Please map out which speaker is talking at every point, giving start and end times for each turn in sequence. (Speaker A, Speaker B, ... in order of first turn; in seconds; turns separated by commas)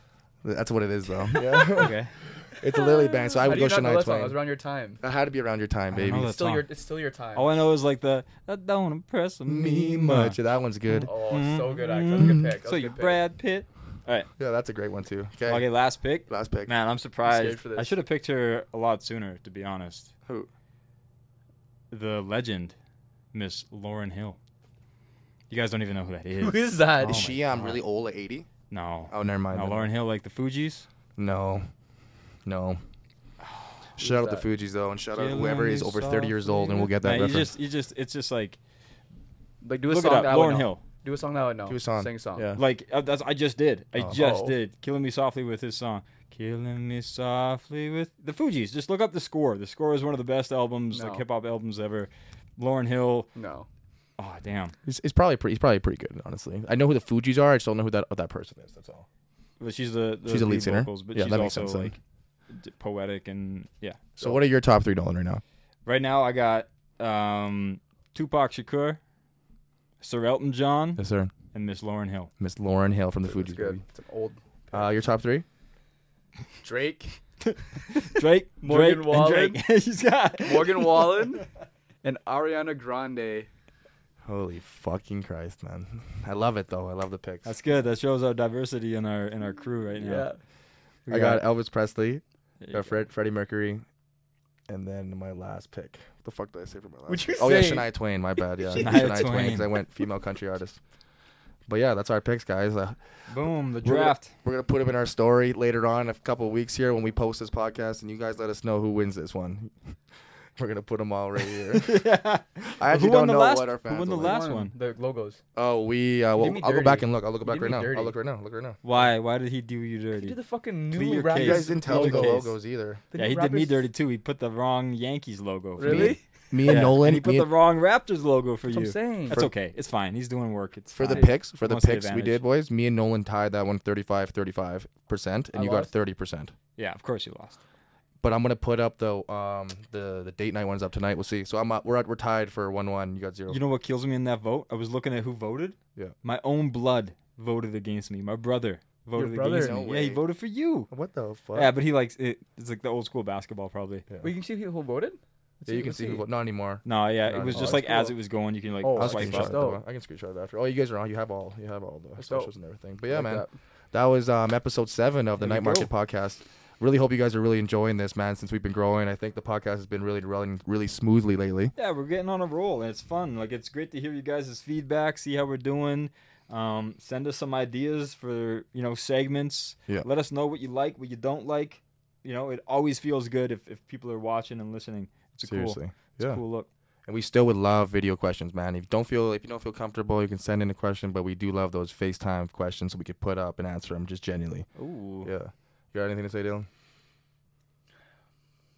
Speaker A: 0.4-2.0, Speaker B: 1.3-1.9, Speaker C: 1.7-2.1, Speaker A: 2.6-4.4, Speaker B: 2.6-5.0, Speaker A: 5.0-6.3, Speaker C: 5.9-6.7, Speaker B: 6.2-7.5, Speaker C: 7.3-10.4, Speaker A: 9.5-11.1, Speaker C: 10.9-14.3, Speaker B: 11.0-13.2, Speaker A: 14.4-15.7, Speaker C: 15.4-20.1, Speaker A: 16.3-16.7, Speaker B: 17.2-17.9, Speaker C: 21.9-22.8, Speaker C: 23.3-24.4, Speaker C: 25.5-27.8, Speaker B: 26.4-27.3, Speaker A: 27.0-28.5, Speaker C: 28.7-30.9, Speaker A: 29.1-29.9, Speaker A: 31.2-31.7, Speaker A: 32.5-32.8, Speaker A: 34.0-37.5, Speaker B: 34.0-34.5, Speaker C: 35.1-38.6, Speaker B: 39.6-42.5, Speaker C: 39.9-40.8, Speaker A: 41.7-42.6, Speaker C: 42.6-53.3, Speaker B: 44.1-44.6, Speaker B: 50.9-51.2, Speaker B: 53.3-53.7, Speaker C: 54.2-54.8, Speaker A: 54.9-59.1, Speaker C: 59.6-62.0, Speaker A: 60.3-61.9, Speaker C: 62.5-64.4, Speaker A: 64.2-65.4, Speaker C: 65.8-69.0, Speaker C: 70.0-72.3, Speaker A: 71.0-71.3, Speaker A: 72.4-73.8, Speaker B: 73.2-74.9, Speaker A: 74.7-75.5, Speaker B: 76.6-77.2, Speaker C: 77.5-81.4, Speaker B: 78.6-79.6, Speaker B: 80.4-81.5, Speaker B: 82.0-83.5, Speaker A: 84.2-87.5, Speaker C: 87.5-90.3, Speaker B: 90.0-90.4, Speaker C: 91.1-91.4, Speaker A: 91.1-93.8, Speaker C: 92.6-93.0, Speaker A: 94.7-100.8, Speaker B: 97.1-97.9, Speaker B: 98.6-99.5, Speaker C: 98.8-99.7, Speaker A: 101.7-103.0, Speaker C: 103.3-104.3, Speaker A: 103.8-109.7, Speaker A: 110.6-112.0, Speaker C: 111.7-114.7, Speaker A: 112.8-114.4, Speaker B: 114.2-115.4, Speaker A: 115.5-118.8, Speaker B: 116.4-118.2, Speaker C: 118.8-120.4, Speaker B: 120.2-122.5, Speaker C: 120.9-122.5, Speaker A: 121.4-123.0, Speaker B: 123.1-123.9, Speaker C: 123.2-132.4, Speaker B: 125.8-126.2, Speaker A: 125.8-127.5, Speaker B: 128.7-129.4, Speaker A: 130.9-136.5, Speaker B: 131.0-131.3, Speaker B: 135.5-135.9, Speaker C: 136.8-137.6, Speaker A: 138.2-143.6, Speaker C: 143.5-150.9, Speaker B: 149.1-149.8, Speaker A: 149.5-150.2, Speaker A: 150.9-151.7, Speaker C: 151.5-154.1, Speaker B: 154.2-156.2, Speaker A: 155.7-157.8, Speaker C: 156.8-159.5, Speaker B: 157.5-158.2, Speaker B: 158.8-159.8, Speaker A: 159.0-171.7, Speaker B: 162.2-162.5, Speaker B: 163.1-163.6, Speaker C: 165.4-165.9, Speaker C: 171.8-186.7, Speaker A: 185.5-186.4, Speaker A: 187.1-194.7, Speaker C: 194.8-195.3, Speaker A: 195.2-196.7